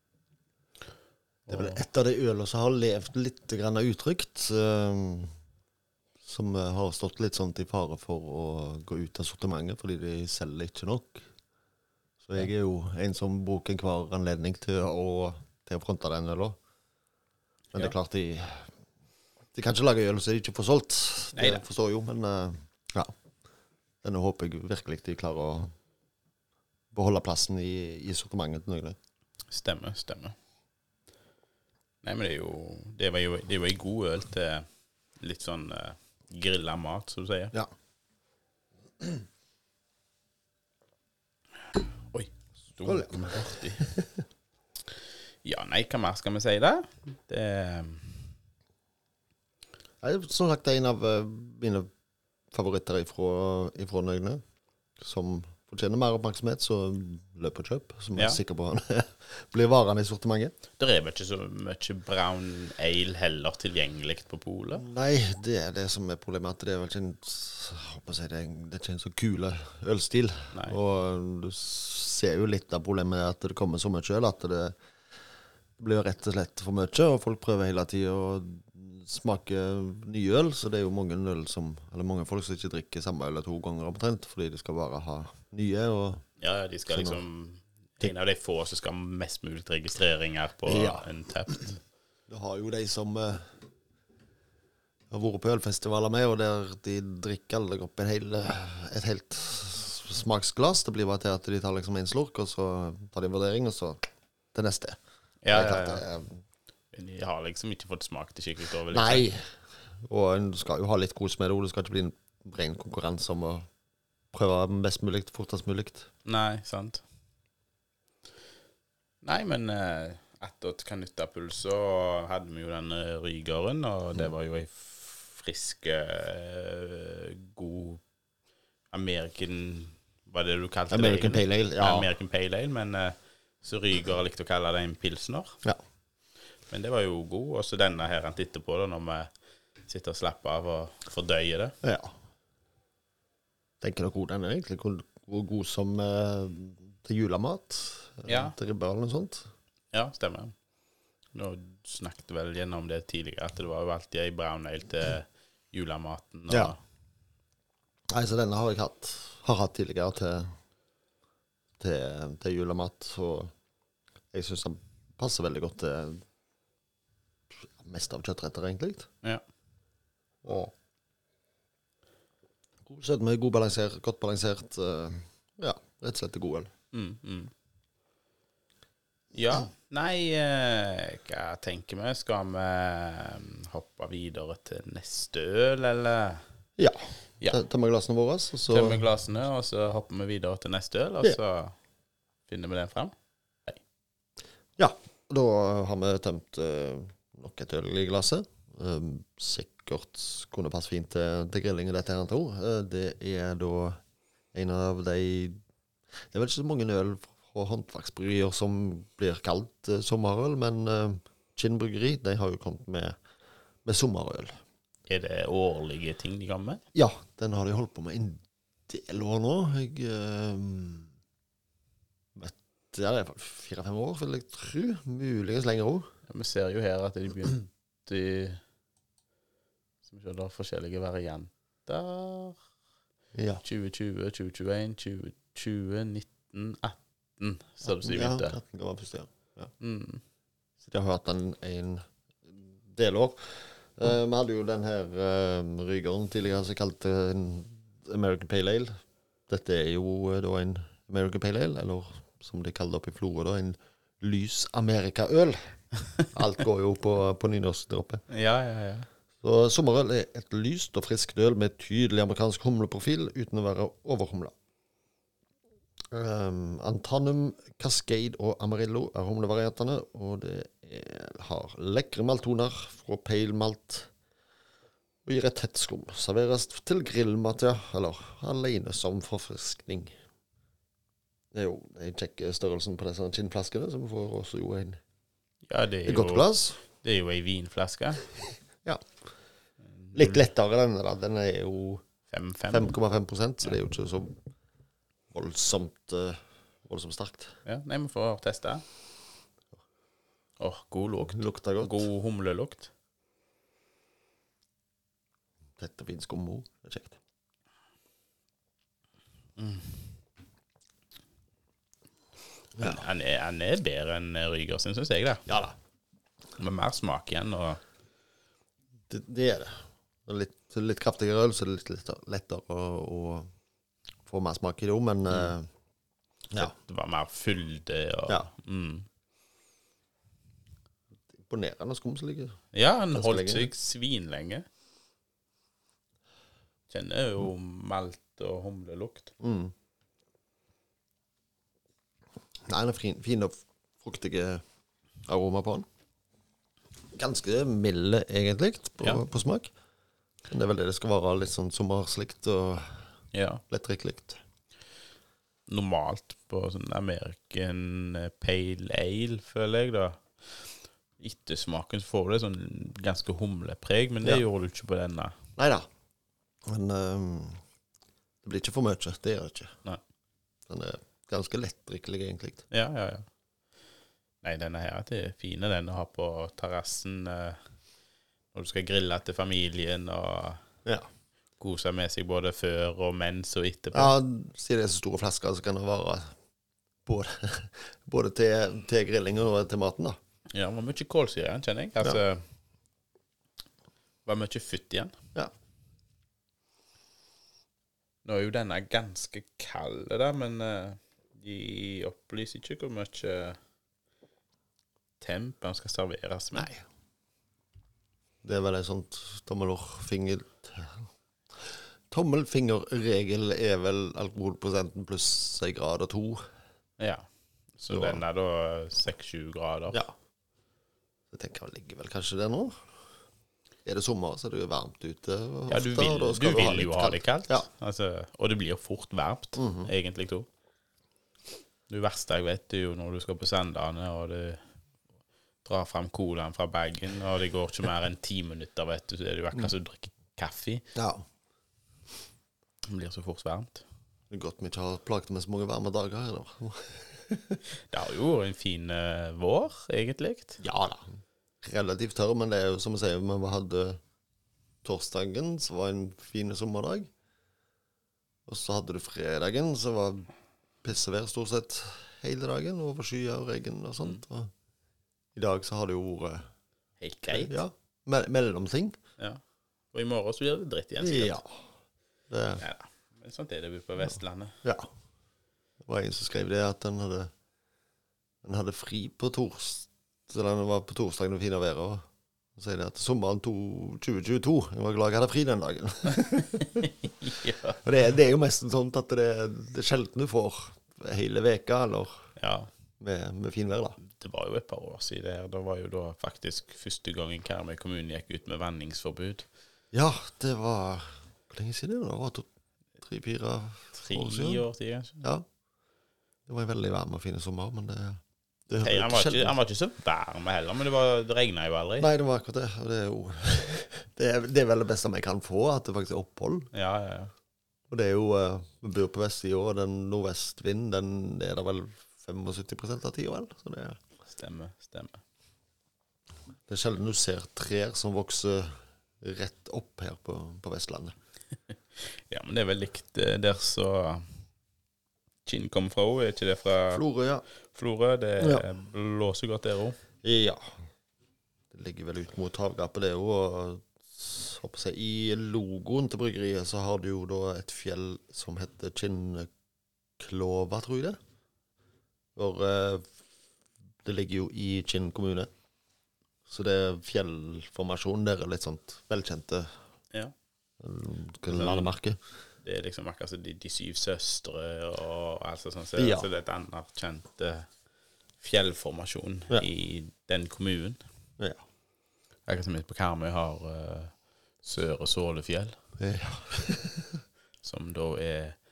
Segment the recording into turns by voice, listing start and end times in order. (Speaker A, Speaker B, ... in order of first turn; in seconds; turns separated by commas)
Speaker A: 1.5-1.8, Speaker B: 1.5-5.3, Speaker B: 6.2-11.3, Speaker B: 12.2-16.6, Speaker B: 17.7-18.7, Speaker B: 19.5-23.1, Speaker A: 21.4-21.6, Speaker B: 24.0-25.7, Speaker B: 26.9-29.0, Speaker A: 29.5-30.3, Speaker A: 32.0-34.7, Speaker A: 35.2-37.5, Speaker A: 42.1-43.9, Speaker B: 42.8-44.2, Speaker A: 44.9-48.3, Speaker B: 50.0-51.9, Speaker B: 52.5-54.4, Speaker B: 55.0-60.5, Speaker A: 60.8-64.8, Speaker B: 64.8-74.7, Speaker A: 70.5-70.8, Speaker B: 75.8-86.2, Speaker A: 86.4-91.8, Speaker B: 86.9-87.2, Speaker B: 90.7-91.7, Speaker B: 92.3-93.5, Speaker B: 95.1-104.0, Speaker B: 104.5-105.0, Speaker A: 105.4-106.0, Speaker B: 105.5-106.4, Speaker A: 106.9-109.2, Speaker B: 108.9-109.4, Speaker B: 110.0-113.7, Speaker B: 114.3-116.1, Speaker A: 116.2-117.0, Speaker A: 119.2-128.0, Speaker A: 128.9-135.6, Speaker B: 130.9-132.1, Speaker A: 136.7-139.3, Speaker A: 139.9-141.7, Speaker B: 141.8-142.1, Speaker B: 143.8-149.5, Speaker A: 148.3-148.6, Speaker A: 149.9-150.5, Speaker A: 151.3-156.8, Speaker B: 156.5-156.7, Speaker B: 158.1-160.5, Speaker B: 161.8-163.5, Speaker B: 164.3-166.2, Speaker B: 167.5-169.1, Speaker B: 170.4-170.7, Speaker B: 172.8-176.7, Speaker A: 176.9-177.5, Speaker A: 179.3-186.4, Speaker B: 186.8-189.0, Speaker A: 188.7-191.8, Speaker A: 192.5-193.1, Speaker B: 194.8-204.0, Speaker B: 204.5-205.6, Speaker B: 206.3-213.2, Speaker B: 213.8-214.6, Speaker A: 215.1-216.8, Speaker B: 216.9-221.1, Speaker B: 222.3-226.1, Speaker A: 226.3-228.6, Speaker A: 230.0-232.6, Speaker B: 233.3-233.6, Speaker A: 233.6-238.6, Speaker B: 237.8-239.7, Speaker A: 239.8-240.2, Speaker B: 240.8-248.9, Speaker B: 249.5-255.7, Speaker B: 256.3-258.2, Speaker A: 258.3-259.1, Speaker B: 259.4-264.5, Speaker B: 266.1-274.1, Speaker B: 275.2-280.1, Speaker B: 281.5-285.0, Speaker A: 285.7-288.3, Speaker B: 286.1-286.8, Speaker B: 288.8-289.1, Speaker A: 290.0-290.4, Speaker B: 290.1-292.0, Speaker A: 292.3-293.0, Speaker B: 292.7-294.4, Speaker B: 295.3-297.6, Speaker A: 297.6-298.8, Speaker A: 300.6-302.9, Speaker B: 301.3-302.1, Speaker B: 305.8-307.2, Speaker A: 309.6-310.1, Speaker A: 312.8-315.4, Speaker B: 315.5-315.7, Speaker A: 316.6-317.8, Speaker B: 319.1-323.5, Speaker B: 324.2-325.7, Speaker A: 326.6-329.1, Speaker B: 331.4-332.6, Speaker A: 332.7-334.6, Speaker B: 333.1-333.7, Speaker A: 336.9-339.3, Speaker B: 339.4-339.7, Speaker B: 342.7-344.6, Speaker B: 345.2-345.9, Speaker B: 347.1-349.7, Speaker B: 350.5-353.0, Speaker A: 353.3-353.6, Speaker B: 353.7-354.4, Speaker A: 355.7-360.7, Speaker A: 361.2-365.4, Speaker B: 365.6-365.9, Speaker B: 366.6-367.6, Speaker B: 368.4-369.8, Speaker B: 370.7-372.6, Speaker A: 372.7-373.2, Speaker A: 374.4-377.6, Speaker A: 378.5-380.6, Speaker A: 381.6-384.1, Speaker B: 383.9-386.3, Speaker B: 387.1-390.2, Speaker A: 390.5-392.4, Speaker A: 394.2-395.1, Speaker A: 398.2-403.6, Speaker A: 405.2-406.7, Speaker B: 406.5-406.8, Speaker B: 408.4-411.1, Speaker B: 412.1-416.4, Speaker A: 417.0-417.2, Speaker A: 417.8-420.0, Speaker B: 417.9-418.2, Speaker B: 421.3-422.8, Speaker B: 423.8-427.6, Speaker A: 425.7-430.5, Speaker B: 429.6-429.9, Speaker A: 431.9-434.6, Speaker A: 435.6-440.8, Speaker B: 440.9-441.2, Speaker A: 442.9-443.8, Speaker B: 444.3-447.6, Speaker A: 447.9-450.6, Speaker B: 450.6-454.0, Speaker B: 454.8-457.1, Speaker B: 458.5-460.3, Speaker B: 460.8-464.5, Speaker B: 465.4-466.5, Speaker A: 467.0-467.5, Speaker B: 467.3-469.0, Speaker A: 469.9-471.4, Speaker B: 471.0-471.6, Speaker B: 472.3-472.6, Speaker A: 472.6-474.6, Speaker B: 475.8-477.3, Speaker B: 478.4-482.0, Speaker B: 482.6-486.9, Speaker A: 486.1-487.8, Speaker B: 487.8-492.2, Speaker A: 492.4-492.7, Speaker B: 493.0-494.0, Speaker A: 494.0-499.5, Speaker B: 499.9-502.5, Speaker B: 503.0-504.6, Speaker A: 503.9-505.2, Speaker B: 506.5-509.5, Speaker A: 508.8-512.1, Speaker B: 512.0-516.7, Speaker A: 516.7-517.3, Speaker B: 517.9-524.0, Speaker A: 524.2-525.2, Speaker B: 526.7-531.1, Speaker A: 531.9-534.3, Speaker A: 535.5-537.0, Speaker B: 536.9-537.4, Speaker A: 537.7-540.0, Speaker B: 540.2-540.8, Speaker B: 541.7-549.5, Speaker B: 550.2-551.2, Speaker B: 552.4-553.1, Speaker B: 554.0-555.5, Speaker B: 556.5-559.7, Speaker B: 560.8-562.2, Speaker A: 561.5-561.9, Speaker A: 562.6-567.7, Speaker B: 566.0-566.3, Speaker A: 568.4-571.0, Speaker A: 572.5-575.8, Speaker B: 576.0-577.2, Speaker A: 577.6-578.6